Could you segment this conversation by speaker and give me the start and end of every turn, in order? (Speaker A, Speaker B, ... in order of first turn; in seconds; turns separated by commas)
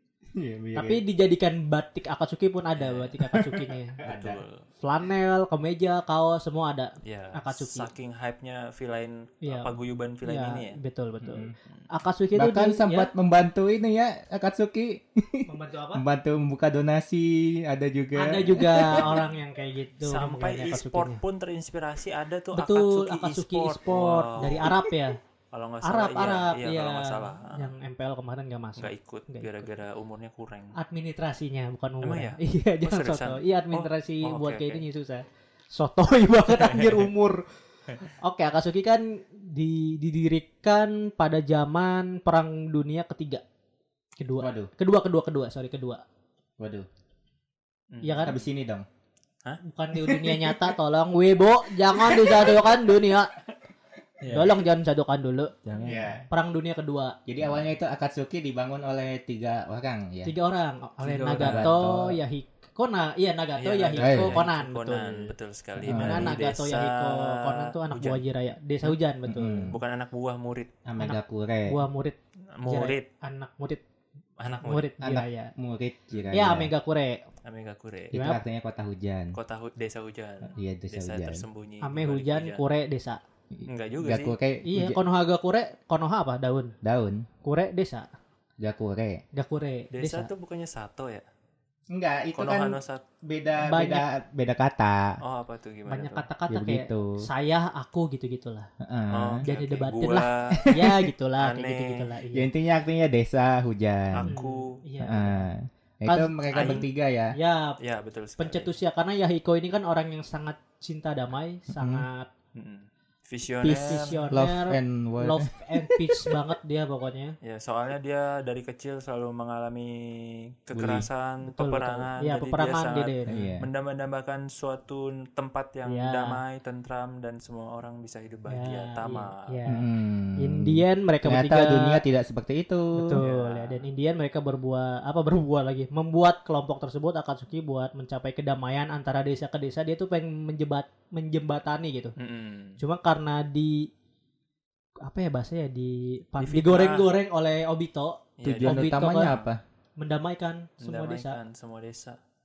Speaker A: 0.3-1.0, Speaker B: 0.8-4.0, Speaker C: 2.8-3.2, Speaker A: 3.2-4.4, Speaker C: 4.0-4.7, Speaker B: 4.8-7.9, Speaker C: 7.0-10.8, Speaker B: 9.4-9.7, Speaker B: 10.2-13.1, Speaker A: 11.2-11.6, Speaker A: 12.3-19.2, Speaker B: 15.4-16.0, Speaker B: 18.2-21.2, Speaker C: 20.0-24.9, Speaker B: 22.5-25.2, Speaker C: 25.5-27.7, Speaker B: 25.8-29.7, Speaker C: 28.8-30.8, Speaker B: 30.7-37.5, Speaker C: 32.0-34.8, Speaker C: 36.5-37.1, Speaker B: 38.0-43.4, Speaker B: 44.2-46.0, Speaker A: 44.4-44.7, Speaker A: 46.6-46.9, Speaker C: 47.9-48.3, Speaker B: 48.0-48.4, Speaker A: 48.2-48.9, Speaker C: 49.4-50.7, Speaker B: 49.6-53.4, Speaker C: 52.0-52.7, Speaker C: 54.2-54.6, Speaker B: 54.3-55.5, Speaker C: 55.6-56.2, Speaker A: 55.8-56.3, Speaker B: 56.3-57.2, Speaker A: 57.3-60.3, Speaker B: 60.2-65.3, Speaker C: 61.0-61.8, Speaker A: 61.4-62.2, Speaker C: 63.6-68.2, Speaker A: 64.0-64.4, Speaker A: 65.8-66.3, Speaker B: 65.9-69.7, Speaker A: 69.3-69.8, Speaker C: 69.7-70.7, Speaker A: 70.8-71.8, Speaker B: 71.0-73.8, Speaker C: 72.6-73.1, Speaker C: 74.4-74.9, Speaker B: 74.6-75.5, Speaker A: 75.0-76.7, Speaker B: 76.3-77.2, Speaker C: 77.4-78.1, Speaker A: 78.1-79.3, Speaker B: 78.1-78.4, Speaker C: 79.3-82.6, Speaker A: 80.4-81.4, Speaker B: 81.8-83.2, Speaker A: 83.5-85.0, Speaker C: 83.7-84.3, Speaker B: 84.7-86.8, Speaker A: 86.8-87.3, Speaker B: 87.4-88.1, Speaker A: 88.6-89.2, Speaker B: 89.3-90.3, Speaker C: 89.9-91.2, Speaker A: 91.9-95.2, Speaker C: 92.3-93.0, Speaker B: 93.6-94.1, Speaker C: 95.2-96.3, Speaker B: 95.9-98.7, Speaker A: 96.5-97.2, Speaker A: 98.8-99.4, Speaker C: 99.1-100.7, Speaker B: 99.4-102.5, Speaker A: 100.5-101.1, Speaker C: 101.4-102.0, Speaker A: 102.3-104.3, Speaker C: 104.1-104.8, Speaker B: 104.2-105.5, Speaker A: 105.0-107.3, Speaker B: 106.1-106.7, Speaker C: 106.5-106.9, Speaker B: 107.3-107.8, Speaker C: 107.8-108.7, Speaker B: 108.4-112.3, Speaker A: 111.7-112.1, Speaker C: 112.5-114.3, Speaker A: 113.6-116.2, Speaker B: 113.7-117.3, Speaker C: 117.4-129.5, Speaker A: 120.7-121.1, Speaker B: 121.5-123.3, Speaker A: 123.3-123.7, Speaker B: 125.9-126.4, Speaker B: 128.5-129.8, Speaker A: 129.7-133.2, Speaker B: 130.4-132.0, Speaker B: 133.0-142.1, Speaker C: 133.2-133.8, Speaker C: 142.2-142.8, Speaker B: 142.8-143.9, Speaker B: 145.0-149.3, Speaker C: 146.4-147.1, Speaker C: 148.4-149.5, Speaker A: 148.4-149.6, Speaker B: 150.0-151.4, Speaker C: 150.8-152.2